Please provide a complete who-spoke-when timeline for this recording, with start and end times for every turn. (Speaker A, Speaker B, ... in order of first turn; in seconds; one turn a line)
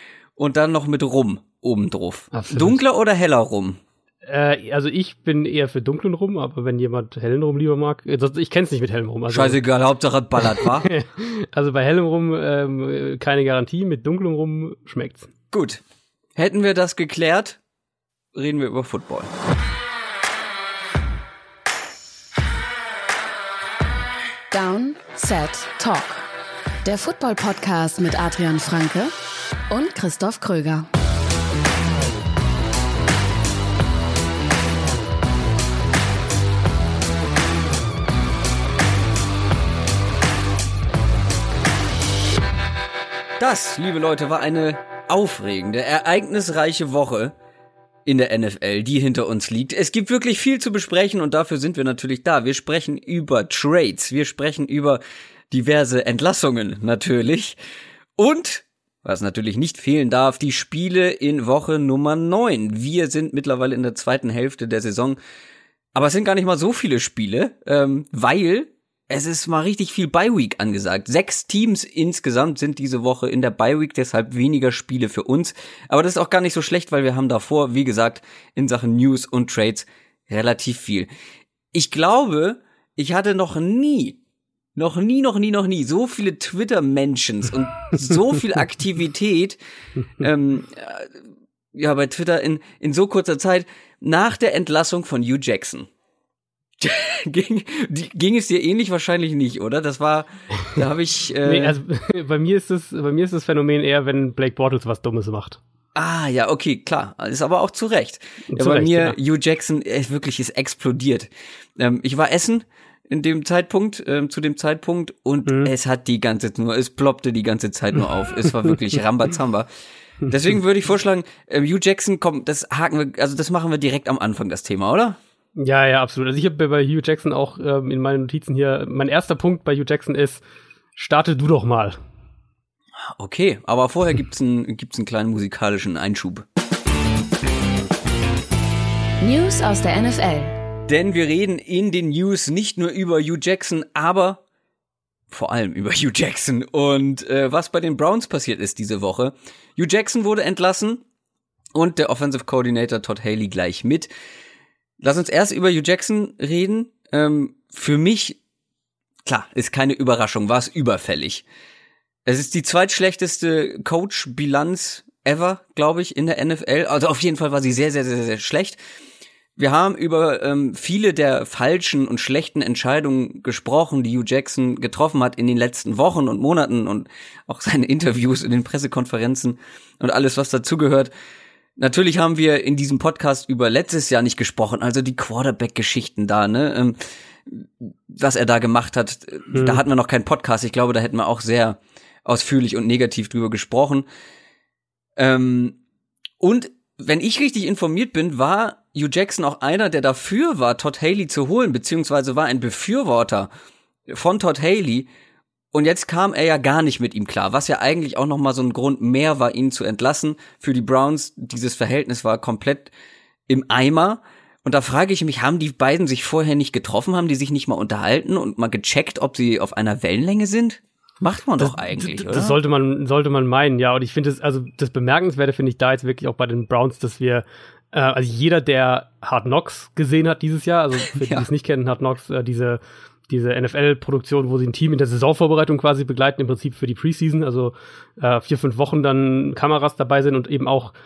Speaker A: 0.4-3.8
Speaker B: 2.3-2.8
Speaker B: 4.2-9.6
Speaker A: 9.3-10.9
Speaker B: 10.4-15.3
Speaker A: 15.5-15.8
Speaker A: 16.4-17.6
Speaker A: 18.3-19.3
Speaker C: 24.5-26.3
Speaker C: 26.8-29.1
Speaker C: 29.7-30.9
Speaker A: 43.4-47.3
Speaker A: 48.0-55.0
Speaker A: 55.5-57.6
Speaker A: 58.2-65.2
Speaker A: 65.9-81.1
Speaker A: 81.7-84.2
Speaker A: 84.8-89.6
Speaker A: 90.2-91.2
Speaker A: 91.7-95.9
Speaker A: 96.8-101.8
Speaker B: 101.4-105.6
Speaker A: 106.0-119.7
Speaker B: 108.5-109.2
Speaker A: 120.2-125.2
Speaker B: 125.5-130.4
Speaker B: 130.9-132.0
Speaker A: 133.1-136.4
Speaker C: 139.2-140.6
Speaker A: 140.9-144.4
Speaker A: 145.3-151.0
Speaker A: 151.7-154.1
Speaker A: 155.0-158.4
Speaker A: 159.2-161.4
Speaker A: 162.2-168.8
Speaker A: 169.6-181.1
Speaker A: 181.8-194.0
Speaker B: 189.5-189.8
Speaker A: 195.2-195.8
Speaker A: 196.4-203.5
Speaker A: 204.1-205.1
Speaker A: 205.7-212.9
Speaker A: 213.5-222.6
Speaker B: 221.6-240.9
Speaker A: 231.2-231.4